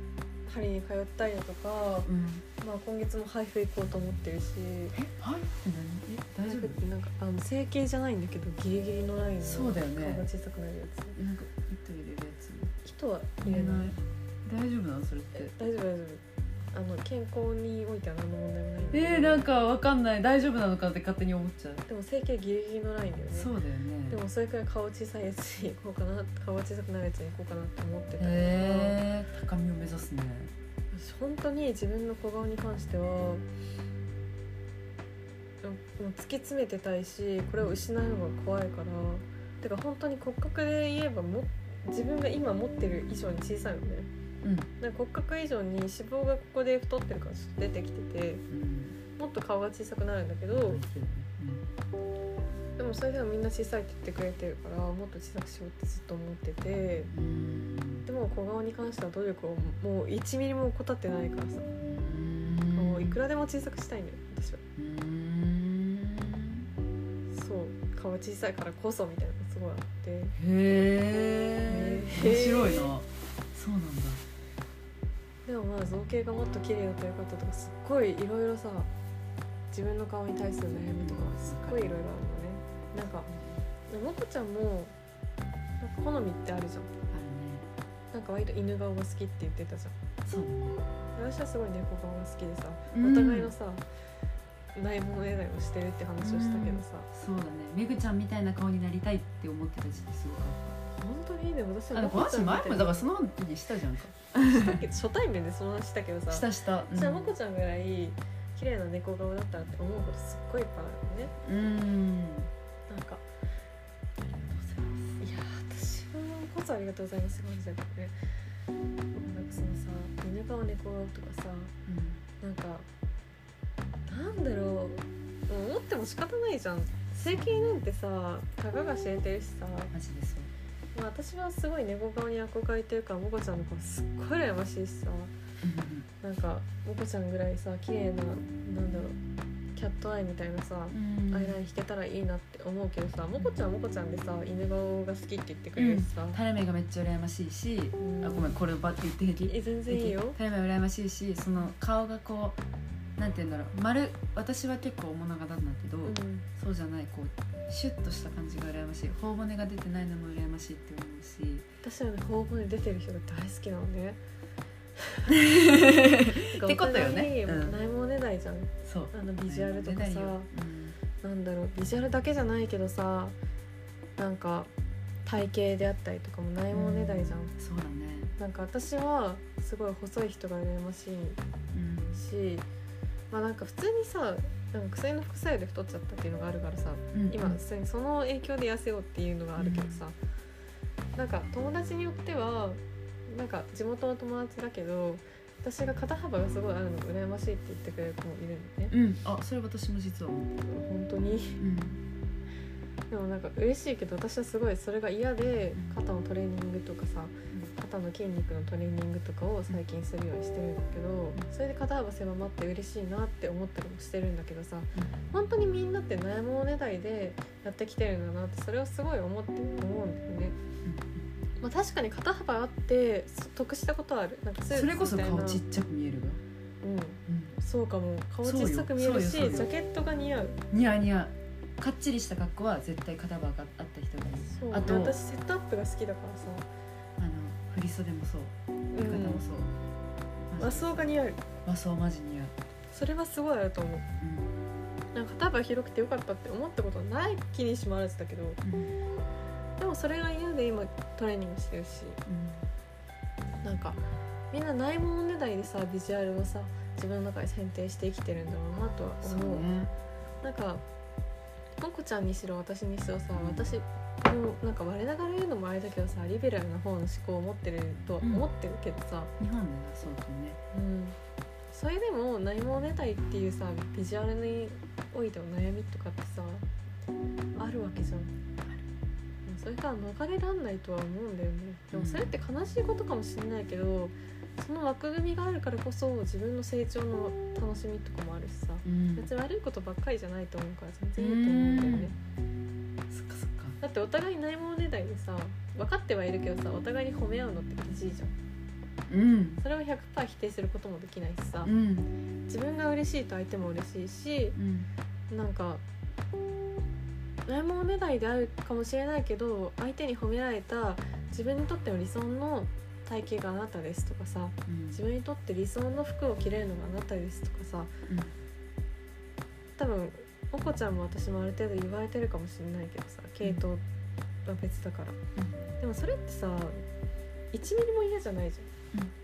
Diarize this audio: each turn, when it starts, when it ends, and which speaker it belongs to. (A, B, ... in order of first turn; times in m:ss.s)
0:00.4-0:04.9 A
0:02.0-0:02.4 B
0:04.9-0:06.8 B
0:06.4-0:11.2 A
0:09.4-0:10.2 B
0:11.2-0:12.7 B
0:12.8-0:13.9 A
0:13.4-0:15.5 B
0:15.3-0:16.2 A
0:16.7-0:19.4 A
0:18.9-0:21.8 B
0:21.9-0:23.5 A
0:23.3-0:24.2 B
0:24.1-0:29.0 A
0:28.2-0:30.5 B
0:30.9-0:33.4 A
0:35.6-0:44.1 A
0:44.4-0:44.7 B
0:44.8-0:48.4 A
0:48.5-0:49.0 B
0:49.2-0:50.8 A
0:50.5-0:51.6 B
0:52.8-0:57.1 A
0:57.1-0:58.0 B
0:58.0-1:01.7 A
1:01.8-1:03.2 B
1:02.7-1:04.6 A
1:04.8-1:06.7 B
1:07.3-1:10.3 A
1:10.4-1:14.2 B
1:11.6-1:12.9 A
1:15.4-1:18.9 A
1:19.7-1:23.3 A
1:20.9-1:22.0 B
1:23.3-1:23.6 B
1:23.9-1:24.9 A
1:25.8-1:26.9 A
1:27.1-1:27.6 B
1:28.1-1:29.9 A
1:30.2-1:30.8 B
1:31.2-1:33.8 A
1:32.9-1:33.5 B
1:34.7-1:37.1 A
1:36.2-1:40.8 B
1:41.0-1:43.1 A
1:41.9-1:44.8 B
1:44.5-1:51.3 A
1:46.3-1:47.3 B
1:51.4-1:52.5 B
1:52.9-1:53.2 A
1:54.2-1:55.2 B
1:55.2-1:58.1 A
1:59.2-2:01.7 A
2:01.9-2:02.2 B
2:02.4-2:02.8 A
2:04.1-2:09.9 A
2:07.2-2:07.8 B
2:09.9-2:10.5 B
2:10.9-2:15.3 A
2:15.6-2:16.1 B
2:16.2-2:19.2 A
2:19.7-2:26.4 A
2:20.9-2:21.6 B
2:25.8-2:32.6 B
2:28.0-2:28.6 A
2:29.4-2:30.4 A
2:33.2-2:41.7 B
2:36.0-2:36.5 A
2:41.8-2:44.2 A
2:45.0-2:45.3 A
2:45.3-2:47.8 B
2:46.3-2:50.5 A
2:48.8-2:51.0 B
2:51.2-2:53.4 A
2:54.2-2:54.7 A
2:55.2-2:57.5 A
2:56.7-2:58.3 B
2:58.4-3:01.4 A
3:01.7-3:02.2 B
3:02.1-3:02.6 A
3:03.3-3:10.2 A
3:07.1-3:07.6 B
3:09.6-3:10.0 B
3:11.2-3:18.9 A
3:18.9-3:20.6 B
3:20.6-3:21.6 A
3:21.6-3:22.0 B
3:23.1-3:40.6 A
3:40.8-3:41.3 B
3:41.6-3:45.6 A
3:44.7-3:46.4 B
3:46.8-3:50.6 A
3:47.3-3:47.5 B
3:48.4-3:49.7 B
3:50.7-3:55.2 B
3:54.5-3:56.6 A
3:57.2-3:59.7 B
3:58.9-3:59.4 A
4:00.5-4:01.1 B
4:00.6-4:01.4 A
4:01.6-4:02.5 B
4:02.9-4:04.0 A
4:04.2-4:04.5 B
4:05.1-4:08.6 A
4:08.6-4:08.9 B
4:09.8-4:12.2 A
4:12.3-4:12.6 B
4:13.6-4:14.0 A
4:14.5-4:19.7 A
4:19.2-4:19.9 B
4:20.4-4:20.8 A
4:21.8-4:29.3 A
4:23.4-4:23.7 B
4:29.4-4:30.6 B
4:30.7-4:31.2 A
4:31.7-4:36.6 A
4:37.6-4:38.3 A
4:39.4-4:52.1 A
4:41.9-4:42.3 B
4:48.8-4:49.3 B
4:51.2-4:52.1 B
4:53.1-4:53.8 B
4:53.8-4:58.3 A
4:59.1-4:59.6 B
4:59.6-5:01.7 A
5:01.6-5:02.1 B
5:02.5-5:04.6 A
5:04.6-5:04.9 B
5:05.3-5:05.8 A
5:07.4-5:17.9 A
5:14.7-5:15.0 B
5:18.1-5:18.3 B
5:19.8-5:23.8 A
5:24.4-5:25.2 A
5:25.4-5:25.6 B
5:25.8-5:26.8 A
5:27.5-5:28.7 A